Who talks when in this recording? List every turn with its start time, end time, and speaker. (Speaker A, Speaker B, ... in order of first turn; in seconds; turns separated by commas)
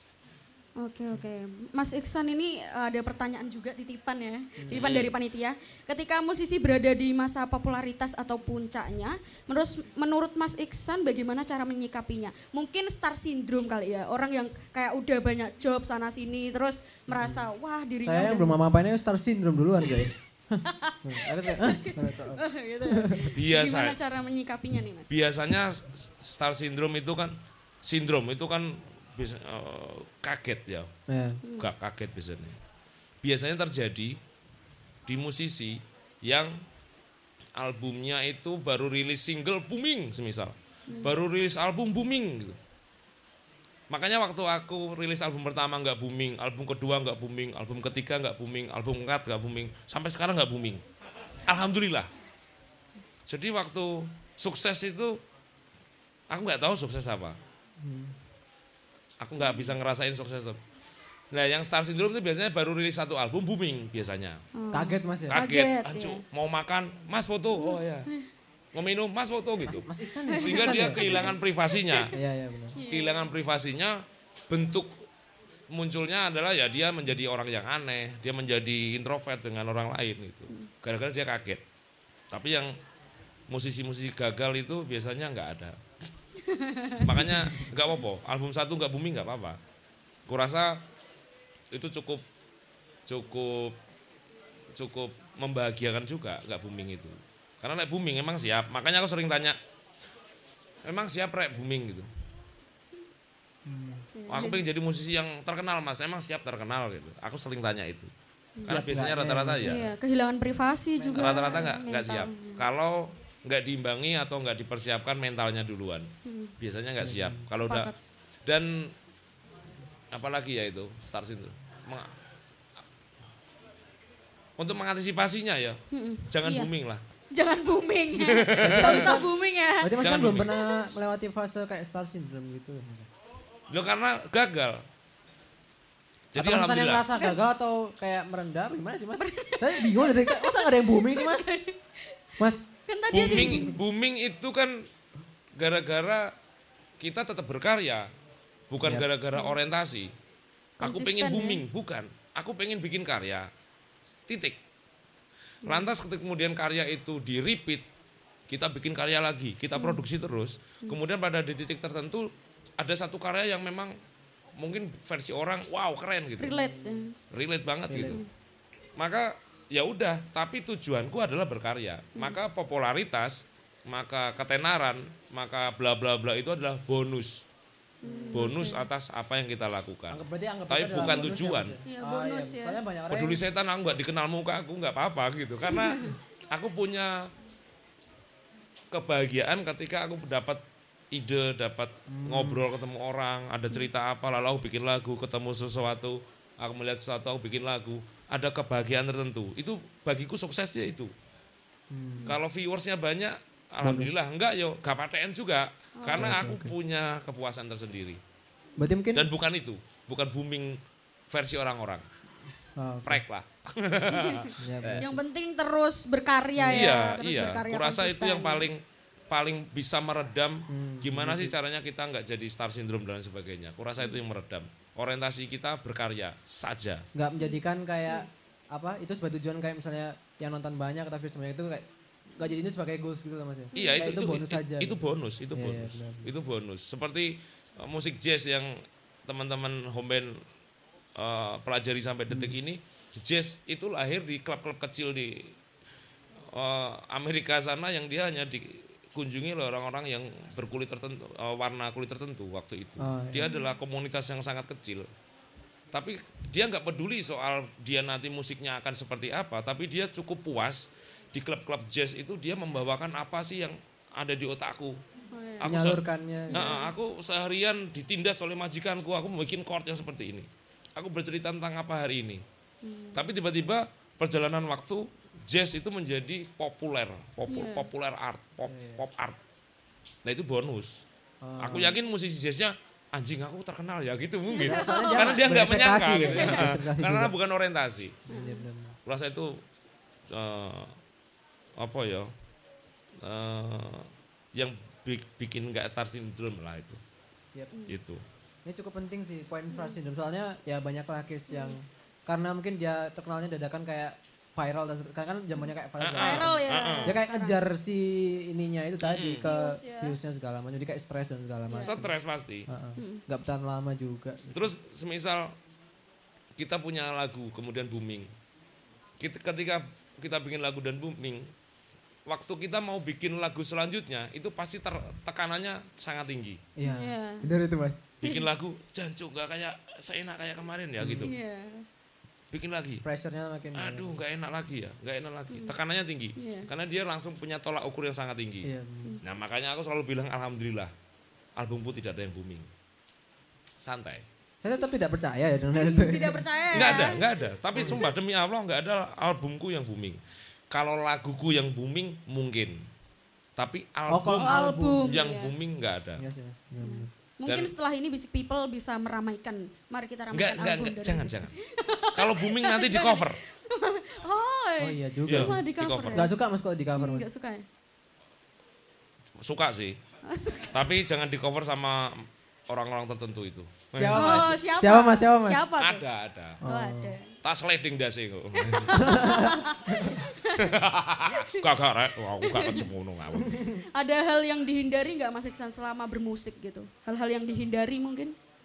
Speaker A: 0.8-18.5, Speaker B: 4.6-4.9, Speaker C: 4.8-5.2, Speaker B: 17.1-17.5, Speaker B: 18.0-23.3, Speaker A: 20.6-25.1, Speaker C: 23.4-24.0, Speaker C: 25.1-30.9, Speaker B: 31.1-31.4, Speaker A: 31.4-31.7, Speaker C: 31.6-32.6, Speaker C: 33.2-34.2, Speaker C: 35.1-36.5, Speaker C: 37.6-42.6, Speaker A: 40.9-41.1, Speaker C: 43.9-50.8, Speaker C: 51.4-52.1, Speaker C: 53.3-55.2, Speaker C: 56.3-57.4, Speaker B: 57.8-58.1, Speaker C: 59.2-60.6, Speaker C: 61.3-64.4, Speaker A: 64.6-66.2, Speaker B: 64.7-65.4, Speaker C: 65.3-68.1, Speaker A: 67.5-68.3, Speaker C: 68.8-69.9, Speaker B: 69.7-71.4, Speaker A: 70.3-71.3, Speaker C: 70.4-72.1, Speaker A: 71.9-72.2, Speaker B: 72.1-72.8, Speaker A: 72.8-73.3, Speaker C: 72.9-74.9, Speaker C: 75.7-81.6, Speaker C: 82.3-82.8, Speaker C: 83.5-85.8, Speaker A: 86.4-87.2, Speaker C: 87.0-89.6, Speaker C: 90.3-90.8, Speaker C: 91.7-92.2, Speaker C: 93.1-93.8, Speaker C: 94.8-99.6, Speaker C: 100.8-102.1, Speaker B: 103.7-104.1, Speaker A: 104.2-104.6, Speaker C: 104.3-108.1, Speaker B: 108.7-109.8, Speaker C: 108.7-109.8, Speaker A: 109.6-112.6, Speaker B: 111.0-111.7, Speaker C: 111.2-117.9, Speaker A: 116.2-116.5, Speaker B: 117.0-117.4, Speaker A: 117.5-118.0, Speaker C: 118.5-118.9, Speaker C: 120.1-122.1, Speaker C: 124.6-127.0, Speaker A: 125.9-126.7, Speaker A: 127.3-129.9, Speaker C: 128.2-129.1, Speaker B: 128.6-129.3, Speaker B: 129.8-133.1, Speaker C: 130.0-130.5, Speaker C: 133.7-134.8, Speaker C: 136.3-137.1, Speaker B: 136.3-141.5, Speaker A: 137.1-137.4, Speaker A: 139.2-141.8, Speaker A: 142.4-143.8, Speaker B: 142.4-142.7, Speaker C: 143.1-144.8, Speaker B: 143.2-143.7, Speaker C: 145.5-146.3, Speaker C: 147.0-148.1, Speaker C: 148.7-150.1, Speaker A: 150.8-151.6, Speaker C: 150.8-153.5, Speaker C: 154.3-154.6, Speaker A: 155.7-155.9, Speaker C: 155.7-157.8, Speaker C: 158.5-163.9, Speaker A: 159.7-160.0, Speaker C: 164.6-166.5, Speaker A: 166.4-167.1, Speaker B: 166.5-167.0, Speaker C: 167.3-168.2, Speaker B: 167.9-168.2, Speaker C: 169.0-177.4, Speaker A: 178.0-178.8, Speaker B: 178.0-178.5, Speaker C: 178.3-181.8, Speaker B: 180.1-183.4, Speaker A: 181.9-182.8, Speaker C: 183.1-187.3, Speaker A: 185.7-186.1, Speaker C: 188.9-201.1, Speaker B: 192.1-192.7, Speaker B: 201.9-202.3, Speaker C: 202.3-208.2, Speaker B: 203.8-204.2, Speaker A: 206.0-206.3, Speaker B: 206.1-206.7, Speaker B: 208.8-209.2, Speaker C: 209.1-210.8, Speaker C: 211.3-212.0, Speaker B: 212.8-213.2, Speaker C: 213.0-215.1, Speaker A: 214.1-218.7, Speaker B: 214.6-215.2, Speaker B: 216.6-216.9, Speaker C: 216.7-227.0, Speaker B: 220.7-221.6, Speaker B: 227.2-231.8, Speaker A: 227.4-228.2, Speaker B: 232.3-235.0, Speaker A: 233.7-234.0, Speaker C: 233.8-240.4, Speaker B: 235.5-236.3, Speaker C: 241.2-245.5, Speaker B: 242.3-242.5, Speaker C: 246.4-255.1, Speaker B: 253.0-253.5, Speaker A: 253.4-253.7, Speaker C: 255.9-265.0, Speaker A: 265.3-265.7, Speaker C: 265.6-272.4, Speaker B: 265.6-266.7, Speaker A: 266.5-266.9, Speaker A: 272.8-273.2, Speaker C: 273.1-279.4, Speaker A: 277.5-277.9, Speaker B: 278.7-279.0, Speaker C: 280.2-281.0, Speaker B: 281.4-282.0, Speaker C: 281.6-288.2, Speaker A: 284.5-285.2, Speaker B: 284.6-287.3, Speaker B: 288.3-289.0, Speaker A: 288.3-288.6, Speaker C: 289.1-289.6, Speaker C: 290.3-290.9, Speaker C: 291.8-292.3, Speaker C: 293.2-297.0, Speaker C: 297.9-298.2, Speaker B: 298.6-312.1, Speaker A: 299.7-300.0, Speaker A: 301.5-301.8, Speaker A: 305.6-307.6, Speaker C: 306.0-307.1, Speaker C: 309.0-309.5, Speaker A: 309.5-310.1, Speaker C: 311.8-312.7, Speaker B: 312.7-314.7, Speaker A: 313.0-313.2, Speaker C: 314.5-315.5, Speaker C: 316.6-318.3, Speaker C: 319.2-321.5, Speaker C: 322.3-326.6, Speaker B: 326.8-328.0, Speaker A: 326.8-327.5, Speaker C: 328.2-331.3, Speaker B: 331.0-331.3, Speaker A: 331.2-331.9, Speaker C: 332.5-333.0, Speaker B: 333.0-334.1, Speaker C: 333.8-338.7, Speaker A: 336.4-336.7, Speaker B: 338.6-339.1, Speaker C: 339.2-340.9, Speaker C: 341.6-342.7, Speaker C: 343.8-344.2, Speaker B: 344.6-347.1, Speaker A: 345.8-347.2, Speaker C: 346.7-350.2, Speaker B: 347.7-348.0, Speaker C: 350.7-352.8, Speaker C: 353.6-356.2, Speaker B: 354.1-355.2, Speaker A: 354.4-355.5, Speaker B: 356.2-357.1, Speaker A: 356.8-366.3, Speaker C: 357.5-357.7, Speaker C: 360.3-361.5, Speaker C: 362.1-363.4, Speaker B: 364.8-365.6, Speaker C: 365.3-366.2, Speaker B: 366.1-367.2, Speaker A: 367.0-367.6, Speaker C: 369.4-370.0, Speaker A: 370.3-370.8, Speaker C: 370.7-374.5, Speaker B: 373.9-375.6, Speaker A: 374.1-376.0, Speaker C: 375.8-376.6, Speaker B: 376.6-377.1, Speaker A: 376.6-377.3, Speaker C: 377.4-379.1, Speaker A: 378.6-380.7, Speaker B: 379.0-380.2, Speaker C: 380.6-383.6, Speaker A: 381.3-381.7, Speaker A: 382.4-382.9, Speaker A: 383.8-388.4